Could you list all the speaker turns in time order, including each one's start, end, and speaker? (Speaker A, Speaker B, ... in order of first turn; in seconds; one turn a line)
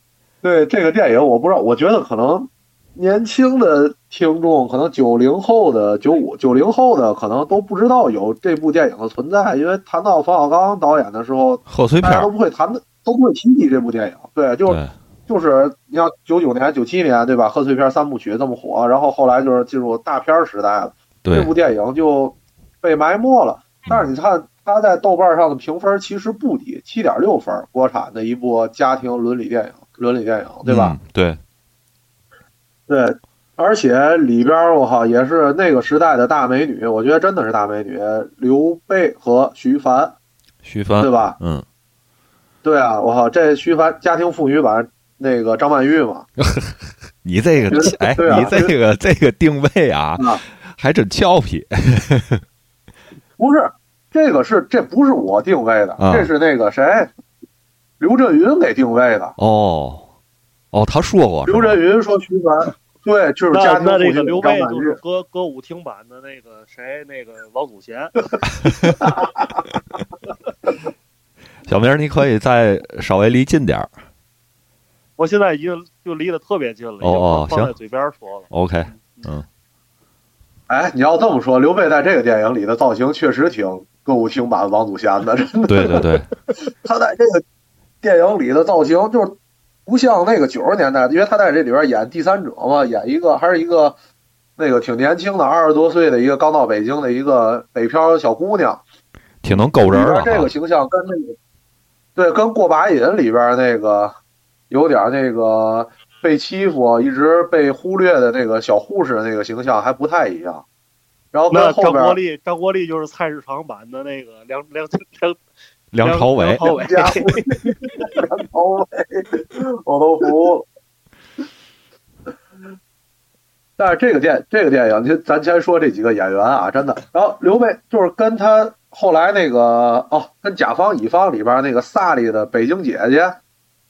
Speaker A: 0.4-30.9
Speaker B: 11.7-12.3
Speaker B: 14.7-14.9
Speaker B: 21.2-21.5
Speaker B: 30.6-31.4
Speaker A: 32.9-40.1
Speaker B: 40.6-41.6
Speaker A: 41.0-41.4
Speaker A: 42.6-46.3
Speaker B: 46.4-52.4
Speaker A: 47.7-48.7
Speaker A: 50.2-50.4
Speaker A: 53.4-57.1
Speaker B: 56.0-56.3
Speaker A: 58.0-59.3
Speaker B: 59.4-60.1
Speaker B: 60.7-61.8
Speaker A: 61.5-65.0
Speaker C: 63.5-68.2
Speaker B: 68.7-69.0
Speaker B: 71.7-73.9
Speaker C: 75.2-79.2
Speaker B: 77.0-77.7
Speaker B: 78.5-79.5
Speaker A: 80.7-87.4
Speaker B: 85.7-86.3
Speaker A: 88.0-94.0
Speaker A: 94.6-98.8
Speaker B: 99.4-100.5
Speaker A: 99.8-101.3
Speaker A: 102.2-104.1
Speaker A: 104.7-110.6
Speaker A: 111.3-112.2
Speaker C: 111.5-115.4
Speaker B: 115.9-116.7
Speaker C: 116.0-118.2
Speaker A: 116.6-117.6
Speaker A: 118.2-120.7
Speaker A: 123.8-133.4